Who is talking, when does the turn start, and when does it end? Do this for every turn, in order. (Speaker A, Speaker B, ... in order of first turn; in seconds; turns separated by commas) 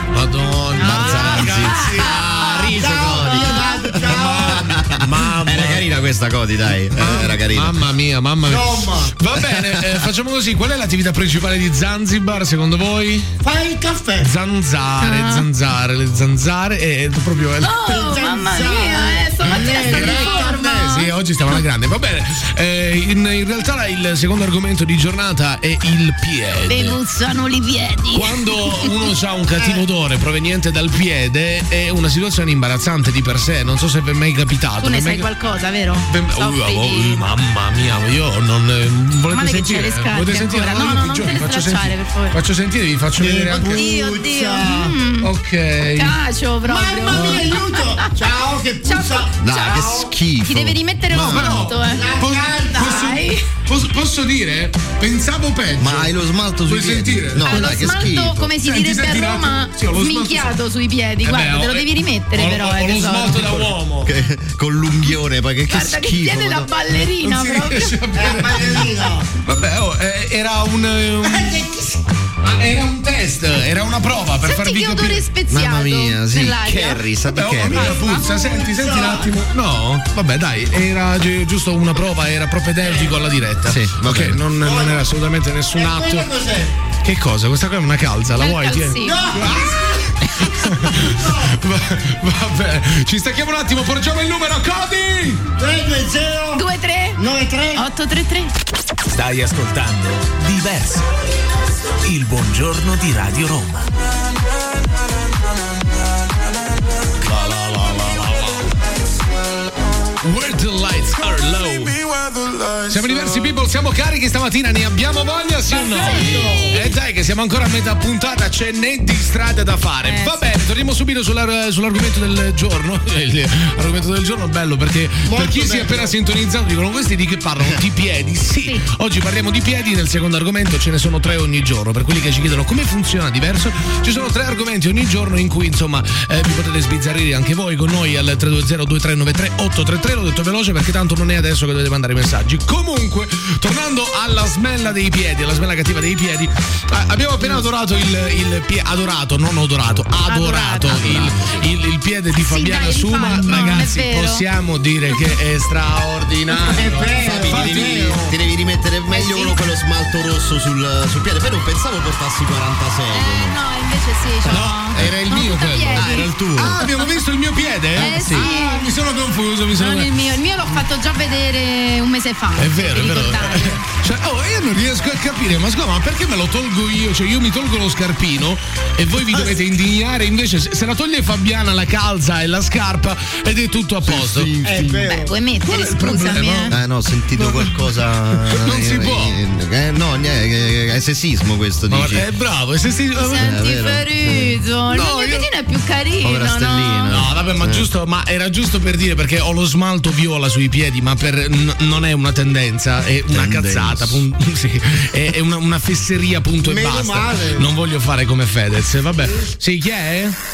Speaker A: 0.1-5.9, Speaker B: 0.8-2.7, Speaker C: 0.8-7.8, Speaker D: 2.7-4.7, Speaker A: 7.0-13.3, Speaker D: 8.4-9.1, Speaker D: 13.4-14.3, Speaker A: 14.2-18.0, Speaker B: 15.0-15.4, Speaker B: 17.6-21.5, Speaker D: 17.8-21.0, Speaker A: 19.5-27.0, Speaker B: 26.7-28.9, Speaker A: 28.1-35.3, Speaker D: 29.6-29.8, Speaker B: 34.8-37.3, Speaker A: 36.1-43.8, Speaker B: 39.3-42.4, Speaker D: 43.2-45.0, Speaker B: 43.6-45.3, Speaker A: 45.2-46.1, Speaker B: 45.9-48.1, Speaker D: 46.6-50.1, Speaker B: 48.8-52.1, Speaker C: 49.4-51.6, Speaker A: 51.1-56.1, Speaker D: 51.8-53.1, Speaker B: 52.7-53.5, Speaker C: 55.8-58.5, Speaker A: 56.6-58.0, Speaker B: 57.5-63.5, Speaker A: 58.6-60.5, Speaker A: 61.2-64.1, Speaker C: 64.0-66.7, Speaker B: 65.7-68.0, Speaker A: 67.2-71.7, Speaker D: 68.1-69.3, Speaker D: 71.2-72.0, Speaker A: 72.4-75.2, Speaker B: 74.4-77.0, Speaker C: 75.5-78.0, Speaker A: 77.3-86.3, Speaker B: 77.6-78.2, Speaker D: 78.1-79.3, Speaker D: 82.8-83.2, Speaker C: 83.7-84.4, Speaker D: 84.6-85.1, Speaker D: 85.7-86.7, Speaker A: 87.0-89.8, Speaker B: 88.3-89.5, Speaker D: 89.0-91.6, Speaker A: 90.3-95.4, Speaker D: 95.6-96.6, Speaker B: 96.5-97.2, Speaker D: 97.2-97.9, Speaker B: 97.7-98.5, Speaker E: 99.1-101.1, Speaker E: 102.0-104.0, Speaker A: 107.2-108.7, Speaker A: 110.2-112.0, Speaker A: 112.8-158.1, Speaker D: 115.7-116.8, Speaker B: 115.8-116.9, Speaker B: 120.0-120.5, Speaker D: 125.2-126.1, Speaker B: 150.2-151.1, Speaker C: 150.9-151.6, Speaker B: 152.3-154.4, Speaker D: 156.6-158.3, Speaker C: 157.2-163.6, Speaker B: 159.1-159.6, Speaker B: 163.1-166.9, Speaker C: 164.4-165.2, Speaker A: 164.5-170.8, Speaker C: 165.9-166.8, Speaker B: 167.9-168.9, Speaker C: 168.0-168.4, Speaker B: 169.7-173.8, Speaker A: 172.6-184.9, Speaker C: 184.0-184.7, Speaker D: 184.6-185.3, Speaker B: 185.0-186.8, Speaker A: 185.6-186.7, Speaker C: 186.7-192.2, Speaker A: 187.3-187.8, Speaker A: 188.3-189.4, Speaker A: 191.9-193.6, Speaker B: 193.2-197.2, Speaker C: 193.4-194.6, Speaker A: 194.9-195.5, Speaker C: 196.2-197.9, Speaker A: 197.1-210.4, Speaker C: 203.3-204.2, Speaker D: 206.6-207.7